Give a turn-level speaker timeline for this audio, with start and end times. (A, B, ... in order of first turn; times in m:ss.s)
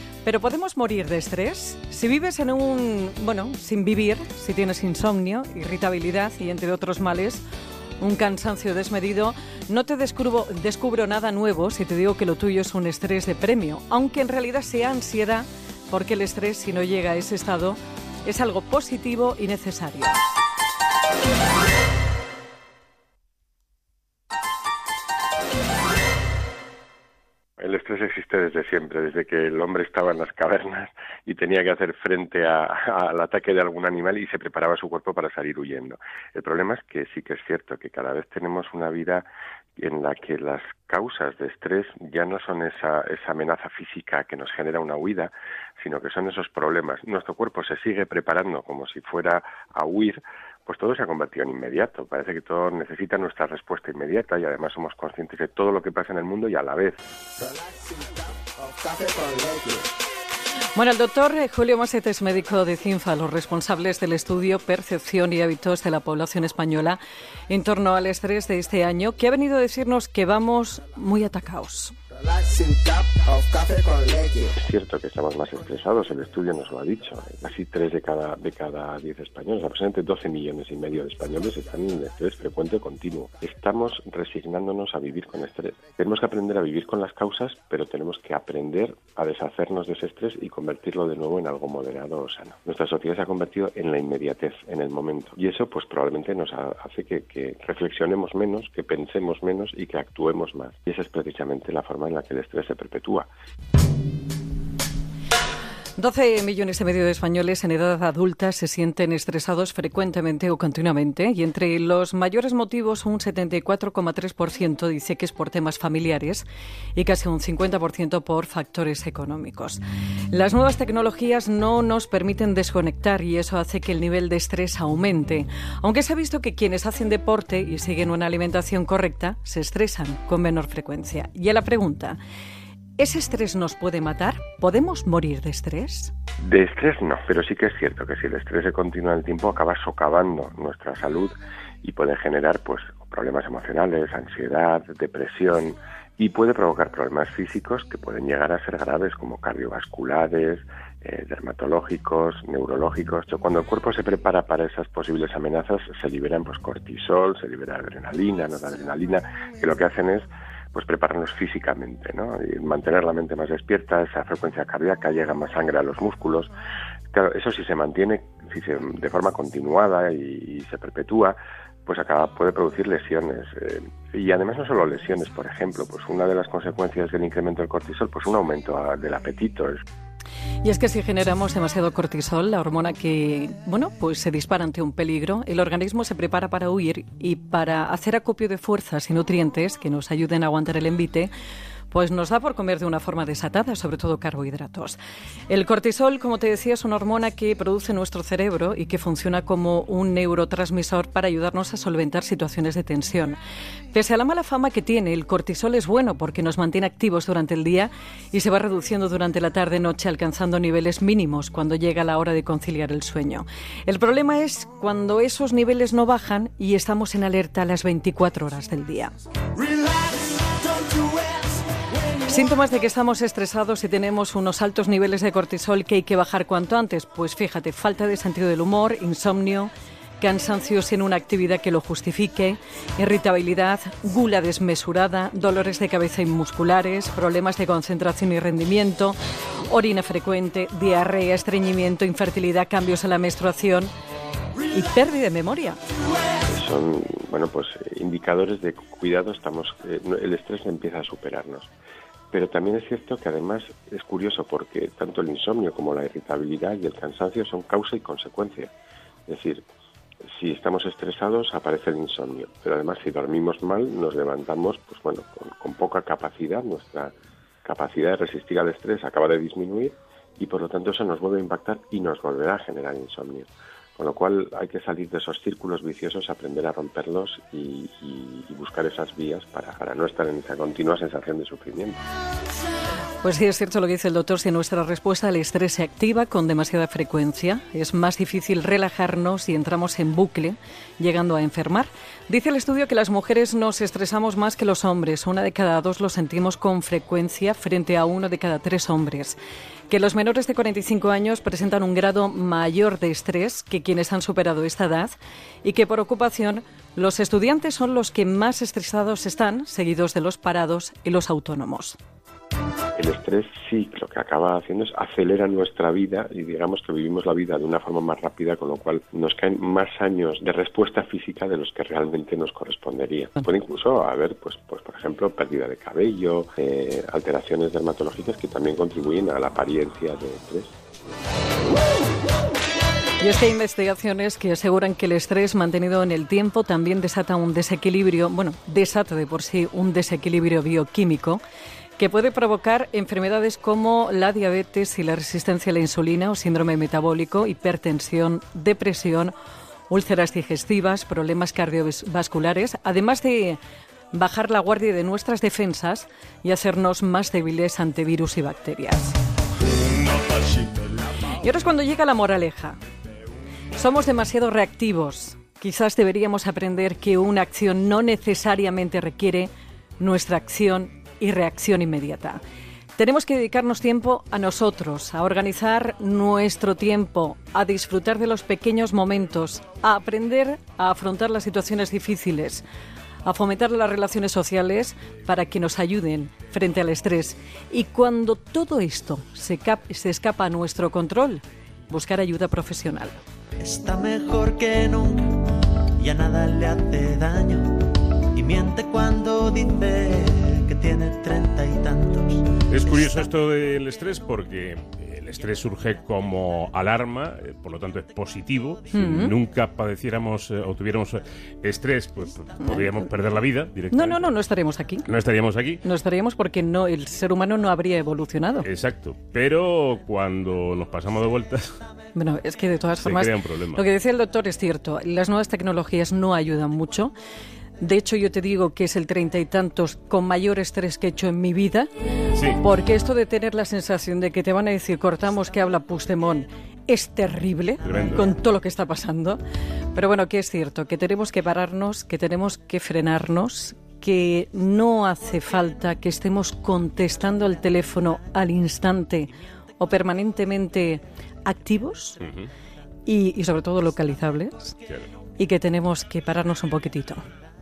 0:00.2-0:07.4 A
0:08.0-0:20.2 A
0:27.6-0:57.0 B
0:57.4-0:58.1 C
0:58.6-0:59.9 C
1:00.8-1:11.9 A
1:12.4-1:14.5 C
1:14.6-1:43.3 B
1:46.0-2:12.2 A
2:13.0-2:16.1 A
2:16.4-2:46.5 B
2:47.1-2:59.8 B
3:00.6-3:11.3 A
3:11.9-3:15.0 A
3:15.5-3:23.4 A
3:23.9-3:39.1 A
3:42.2-3:59.2 A
3:59.7-4:03.9 A
4:04.7-4:05.8 A
4:06.5-4:11.7 B
4:12.3-4:18.7 B
4:19.3-4:19.6 B
4:20.3-4:42.0 B
4:43.2-4:59.4 A
4:59.9-5:12.0 A
5:13.0-5:30.8 B
5:33.2-5:41.4 A
5:42.0-5:49.3 A
5:49.9-5:53.6 A
5:54.1-5:59.2 A
6:01.3-6:02.8 A
6:03.7-6:12.4 A
6:13.0-6:22.6 A
6:23.2-6:33.2 A
6:33.6-6:43.1 C
6:42.7-6:54.3 D
6:48.9-6:49.3 A
6:53.9-6:55.1 A
6:55.0-6:55.8 D
6:55.8-6:58.7 A
6:58.6-7:01.8 D
7:02.1-7:07.1 A
7:03.0-7:03.8 D
7:07.8-7:11.9 A
7:12.3-7:12.6 D
7:12.6-7:19.4 A
7:17.8-7:18.2 D
7:19.9-7:32.2 A
7:32.2-7:32.5 D
7:33.0-7:34.8 A
7:35.4-7:37.2 A